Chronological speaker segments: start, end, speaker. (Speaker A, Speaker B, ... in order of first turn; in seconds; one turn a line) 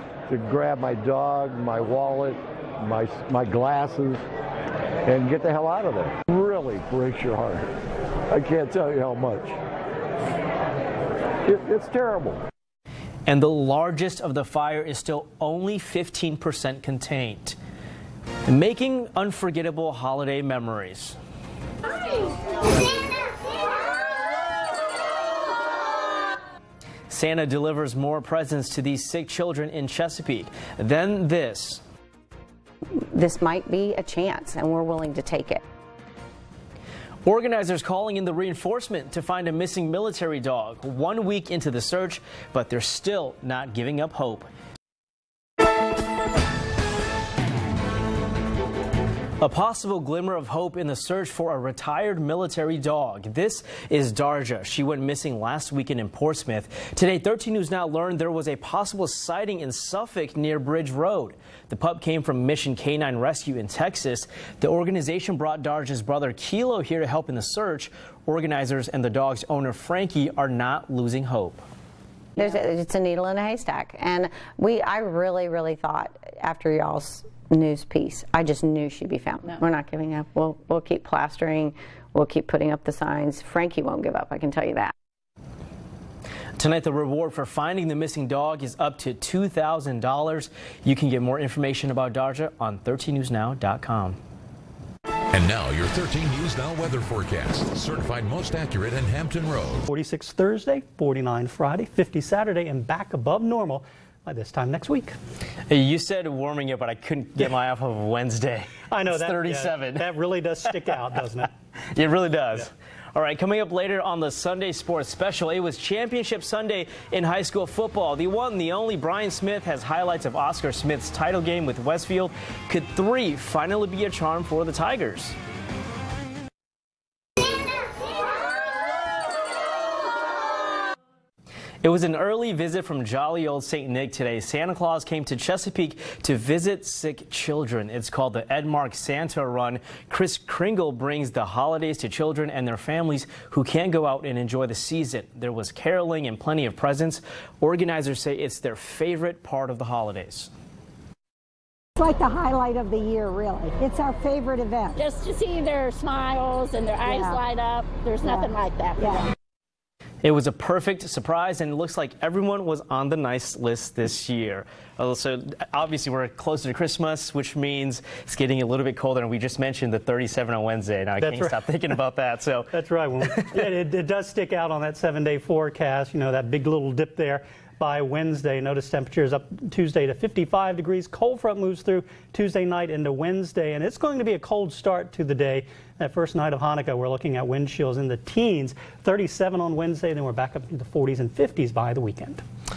Speaker A: 0.3-4.2
Speaker A: 5.0-7.7
Speaker A: 8.3-9.6
Speaker A: 11.4-12.4
Speaker B: 13.3-17.6
Speaker B: 18.4-21.2
Speaker B: 27.1-31.8
Speaker C: 33.1-35.6
Speaker B: 37.2-44.5
Speaker B: 49.4-71.6
Speaker C: 72.3-84.9
Speaker B: 86.6-94.2
Speaker D: 95.3-99.8
Speaker E: 99.9-105.1
Speaker B: 105.7-110.1
Speaker E: 108.9-111.5
Speaker B: 110.6-111.0
Speaker B: 111.9-125.3
Speaker B: 131.8-150.5
Speaker F: 152.0-155.0
Speaker G: 155.0-159.0
Speaker F: 157.0-157.4
Speaker F: 158.2-159.3
Speaker B: 160.2-173.7
Speaker E: 171.2-171.9
Speaker E: 172.7-192.4